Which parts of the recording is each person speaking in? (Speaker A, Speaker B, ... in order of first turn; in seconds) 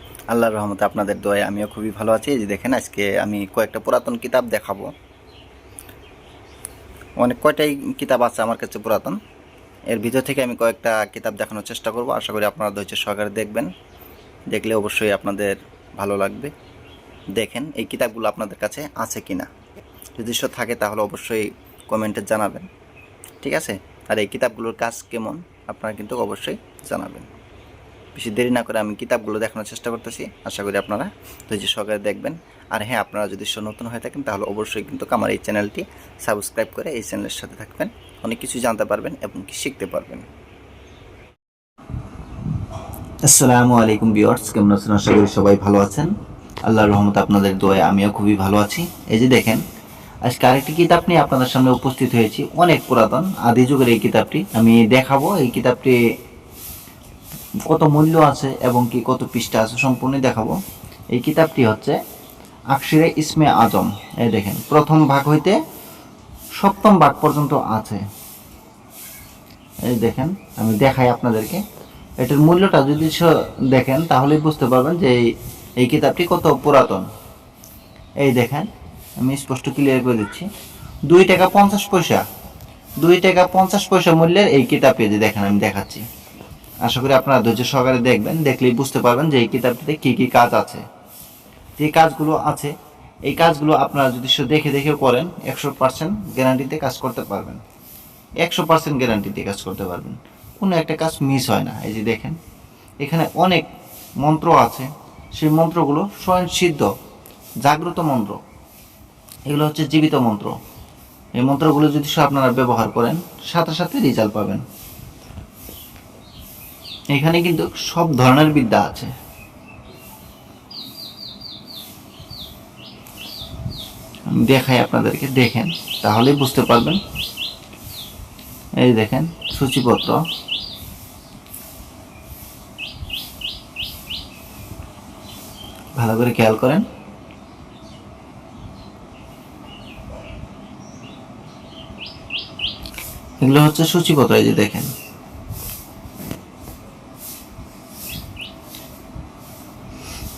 Speaker A: 0.3-4.9, 7.2-9.2, 9.9-13.7, 14.5-16.5, 17.4-19.5, 20.2-22.7, 23.4-27.3, 28.1-40.3, 43.2-46.1, 46.6-49.6, 50.2-56.0, 57.6-60.6, 61.1-62.0, 62.7-65.6, 66.6-68.0, 69.8-71.6, 72.2-75.3, 75.8-77.1, 78.2-80.5, 81.1-82.2, 83.0-86.0, 86.8-90.8, 91.8-92.7, 93.2-97.6, 98.4-102.4, 103.0-103.7, 104.2-106.9, 107.6-108.4, 109.5-110.5, 111.3-114.6, 117.1-119.1, 124.3-127.0, 128.8-130.2, 136.0-136.8, 143.4-144.9